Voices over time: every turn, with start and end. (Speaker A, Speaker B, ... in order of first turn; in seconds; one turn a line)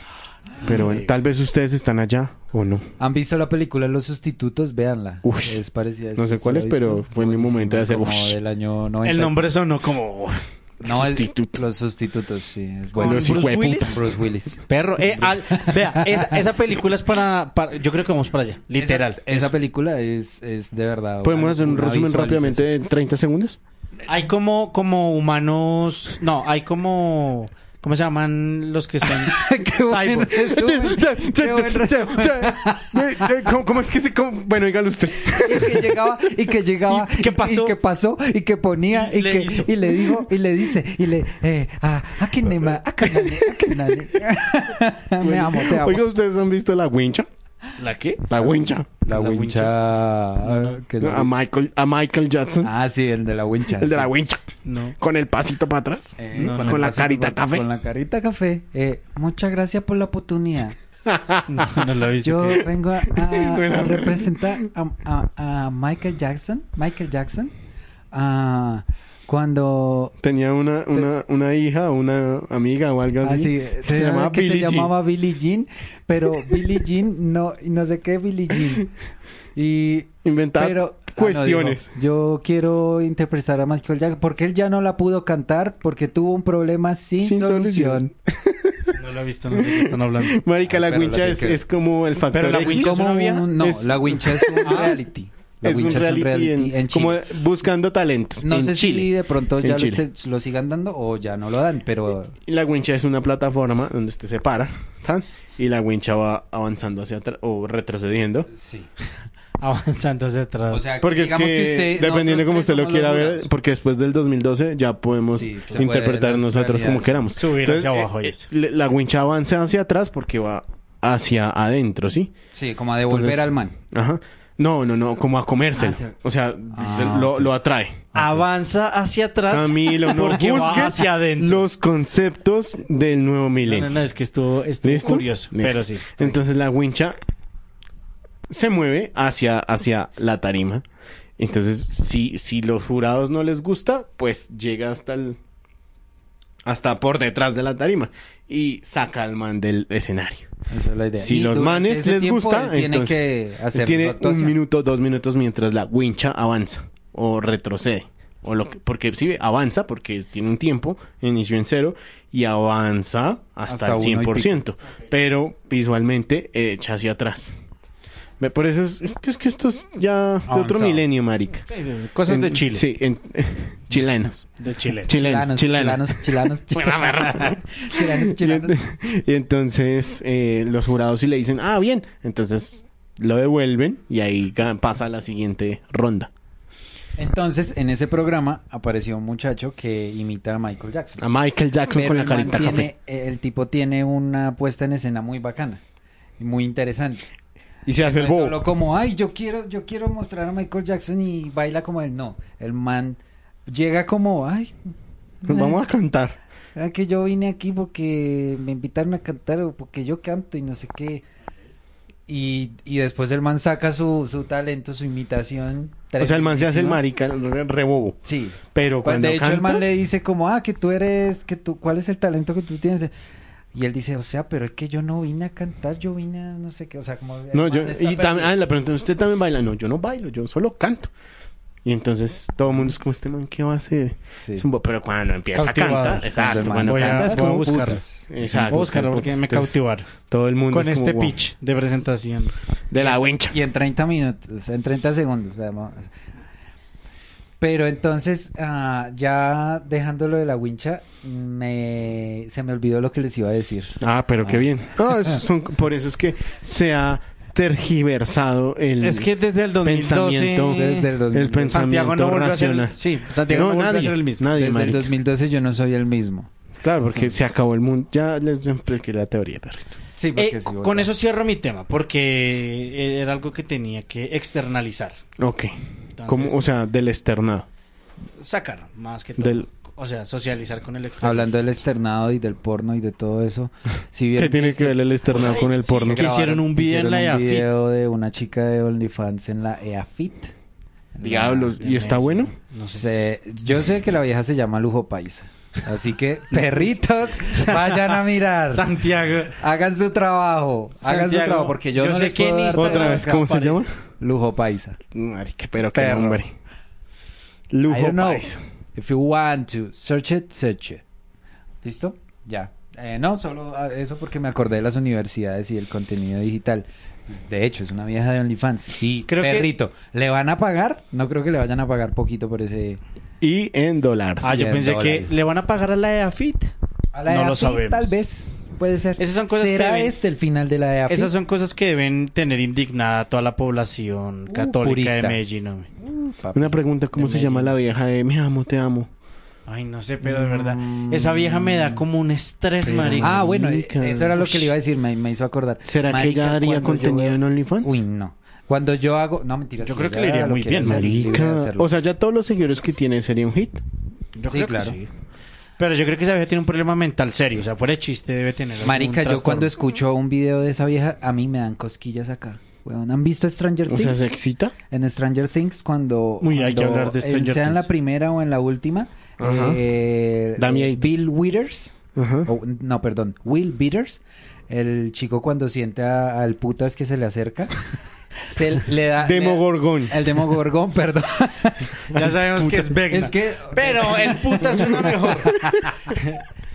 Speaker A: 0.6-2.9
Speaker B: 0.6-1.1
Speaker C: 3.0-9.4
Speaker A: 5.2-5.6
Speaker A: 6.1-8.3
Speaker B: 9.0-10.4
Speaker A: 10.8-11.6
Speaker C: 10.8-14.6
Speaker B: 12.9-14.0
Speaker A: 13.0-14.1
Speaker B: 14.7-19.5
Speaker C: 15.2-16.4
Speaker C: 18.8-22.6
Speaker A: 21.2-23.6
Speaker B: 24.1-30.3
Speaker C: 29.0-33.5
Speaker A: 30.3-36.0
Speaker C: 35.3-46.0
Speaker B: 36.9-37.7
Speaker B: 38.9-39.7
Speaker A: 43.1-43.8
Speaker A: 45.2-47.3
Speaker B: 47.8-48.3
Speaker A: 48.3-49.0
Speaker B: 49.0-49.7
Speaker C: 49.1-51.3
Speaker B: 50.4-50.7
Speaker A: 51.0-52.7
Speaker C: 52.6-54.1
Speaker A: 53.8-54.4
Speaker B: 54.6-55.0
Speaker A: 55.0-57.6
Speaker C: 56.2-60.8
Speaker B: 56.3-56.8
Speaker A: 61.1-61.8
Speaker B: 61.5-62.7
Speaker C: 62.2-67.5
Speaker A: 63.1-64.5
Speaker C: 68.1-70.1
Speaker A: 70.2-74.9
Speaker C: 73.2-78.9
Speaker C: 79.5-88.1
Speaker A: 80.2-81.9
Speaker A: 87.2-89.0
Speaker B: 88.9-90.4
Speaker A: 89.5-95.0
Speaker C: 90.7-91.6
Speaker B: 92.3-93.5
Speaker C: 92.6-97.2
Speaker B: 94.6-94.9
Speaker A: 95.6-100.0
Speaker C: 98.4-102.3
Speaker A: 102.5-108.5
Speaker C: 108.5-108.9
Speaker B: 109.6-110.8
Speaker C: 110.7-113.5
Speaker A: 111.0-122.3
Speaker C: 115.3-117.1
Speaker B: 117.3-118.5
Speaker C: 122.5-123.7
Speaker A: 123.1-128.1
Speaker C: 125.7-126.2
Speaker C: 126.7-127.5
Speaker B: 128.1-131.6
Speaker A: 129.5-133.9
Speaker B: 133.6-136.4
Speaker A: 134.8-137.2
Speaker A: 138.5-140.8
Speaker A: 141.4-145.4
Speaker A: 146.6-150.5
Speaker C: 150.7-154.6
Speaker A: 151.2-153.2
Speaker A: 153.7-167.6
Speaker C: 163.7-164.6
Speaker A: 168.4-171.7
Speaker C: 170.5-171.0
Speaker B: 171.7-172.8
Speaker A: 172.3-174.5
Speaker B: 174.6-175.1
Speaker A: 175.1-186.3
Speaker C: 175.1-178.8
Speaker C: 187.2-191.2
Speaker A: 191.2-192.9
Speaker C: 191.9-195.8
Speaker C: 196.4-197.2
Speaker A: 197.8-198.6
Speaker C: 197.9-204.8
Speaker C: 205.4-205.8
Speaker A: 205.4-206.4
Speaker C: 206.7-211.2
Speaker C: 212.3-217.0
Speaker A: 216.2-218.2
Speaker C: 218.2-223.1
Speaker A: 218.7-219.8
Speaker C: 223.7-228.5
Speaker A: 227.5-231.1
Speaker A: 231.8-237.7
Speaker C: 234.4-234.6
Speaker B: 235.5-236.3
Speaker C: 236.2-239.2
Speaker B: 236.8-240.1
Speaker A: 238.3-241.4
Speaker B: 240.7-242.5
Speaker A: 242.9-243.6
Speaker C: 243.0-246.1
Speaker C: 247.6-255.4
Speaker A: 254.0-259.3
Speaker B: 259.0-261.0
Speaker A: 259.8-265.1
Speaker C: 260.7-261.8
Speaker B: 261.7-264.4
Speaker C: 264.5-266.5
Speaker A: 266.8-270.0
Speaker C: 267.1-267.5
Speaker C: 270.2-271.1
Speaker B: 270.3-275.2
Speaker A: 275.4-277.6
Speaker B: 276.2-276.6
Speaker B: 278.4-281.5
Speaker A: 279.4-279.6
Speaker C: 281.2-285.0
Speaker A: 284.3-286.3
Speaker B: 285.3-287.7
Speaker C: 286.0-290.5
Speaker C: 291.1-291.8
Speaker A: 291.2-292.5
Speaker B: 291.8-293.0
Speaker C: 292.9-298.9
Speaker B: 297.4-299.6
Speaker C: 299.5-303.5
Speaker B: 301.0-303.8
Speaker A: 302.7-303.9
Speaker C: 304.2-305.0
Speaker A: 305.1-306.5
Speaker C: 305.9-306.4
Speaker A: 307.7-308.6
Speaker C: 307.9-311.0
Speaker C: 311.8-323.0
Speaker B: 319.3-319.7
Speaker A: 323.4-324.5
Speaker C: 324.4-325.3
Speaker B: 324.4-326.7
Speaker C: 327.1-331.3
Speaker B: 327.3-328.2
Speaker B: 329.2-330.1
Speaker B: 331.1-335.9
Speaker C: 334.5-335.4
Speaker C: 336.0-337.8
Speaker A: 336.5-339.1
Speaker B: 339.7-343.3
Speaker C: 340.2-342.0
Speaker A: 342.8-344.7
Speaker C: 343.2-351.9
Speaker A: 345.8-348.0
Speaker B: 349.8-351.1
Speaker A: 350.8-353.8
Speaker B: 354.4-355.1
Speaker C: 354.5-355.0
Speaker B: 355.8-359.7
Speaker C: 358.8-364.3
Speaker A: 363.9-364.7
Speaker C: 364.9-377.7
Speaker B: 366.4-367.9
Speaker A: 369.4-369.8
Speaker A: 370.6-371.1
Speaker A: 372.1-372.5
Speaker C: 378.4-382.1
Speaker A: 379.2-380.2
Speaker B: 382.1-386.4
Speaker C: 382.6-385.9